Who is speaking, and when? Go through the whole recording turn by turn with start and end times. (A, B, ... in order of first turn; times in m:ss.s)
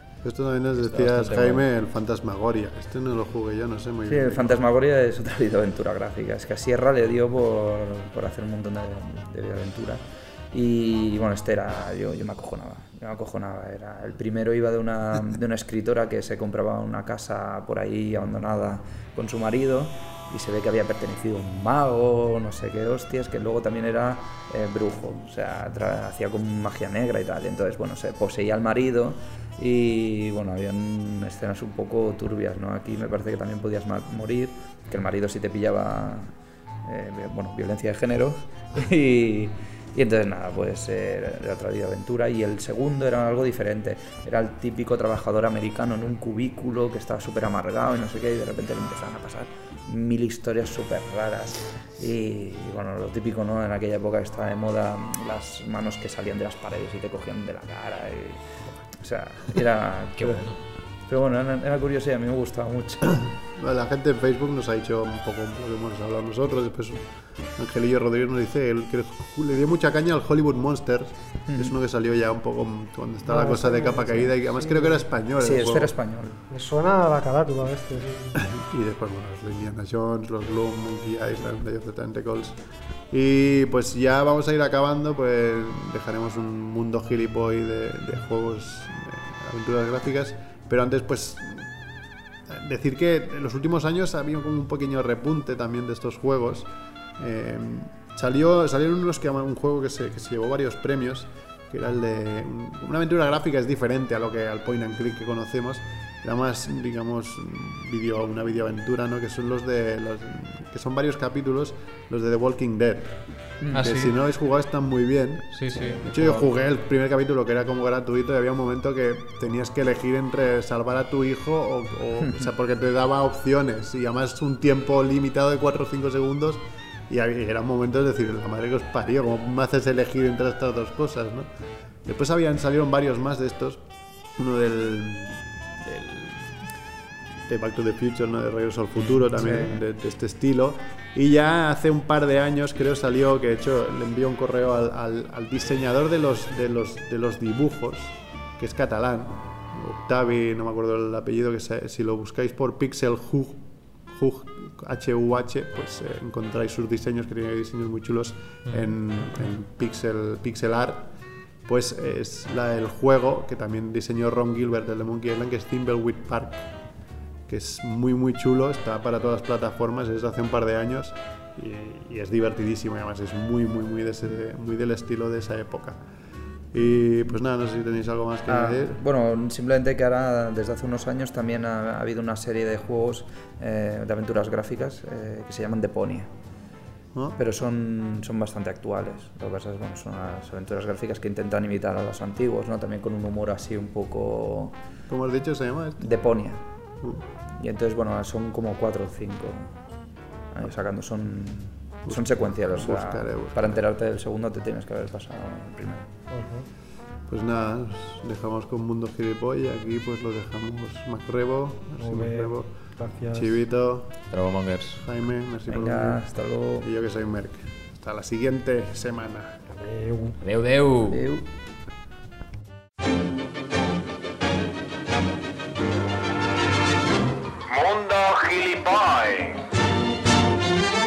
0:00.2-0:04.6 A
0:00.8-0:01.6 B
0:04.1-0:36.3 C
0:36.8-1:00.4 C
1:00.2-1:00.6 B
1:01.1-1:03.3 C
1:03.3-1:16.0 A
1:13.3-1:15.0 D
1:15.4-1:16.4 C
1:16.5-1:18.4 D
1:18.4-1:22.6 A
1:23.1-1:31.7 A
1:32.5-2:11.5 A
1:53.7-1:54.1 B
1:55.5-1:56.5 B
2:12.0-2:13.9 A
2:14.4-2:16.6 A
2:17.5-2:41.1 A
2:19.0-2:19.4 B
2:41.7-2:46.7 A
2:47.5-2:56.0 A
2:56.7-2:59.0 A
2:58.5-3:06.3 C
3:07.4-3:14.8 C
3:15.1-3:16.1 A
3:16.0-3:16.6 C
3:17.6-3:19.7 C
3:20.5-3:26.1 C
3:22.1-3:23.8 A
3:26.3-3:26.7 D
3:27.3-3:32.7 A
3:32.0-3:33.5 D
3:33.3-3:34.1 A
3:34.3-3:35.0 B
3:35.0-3:36.2 A
3:35.7-3:36.9 C
3:36.8-3:39.6 A
3:39.7-3:40.4 D
3:40.4-3:41.2 B
3:41.1-3:41.5 C
3:47.7-3:49.6 E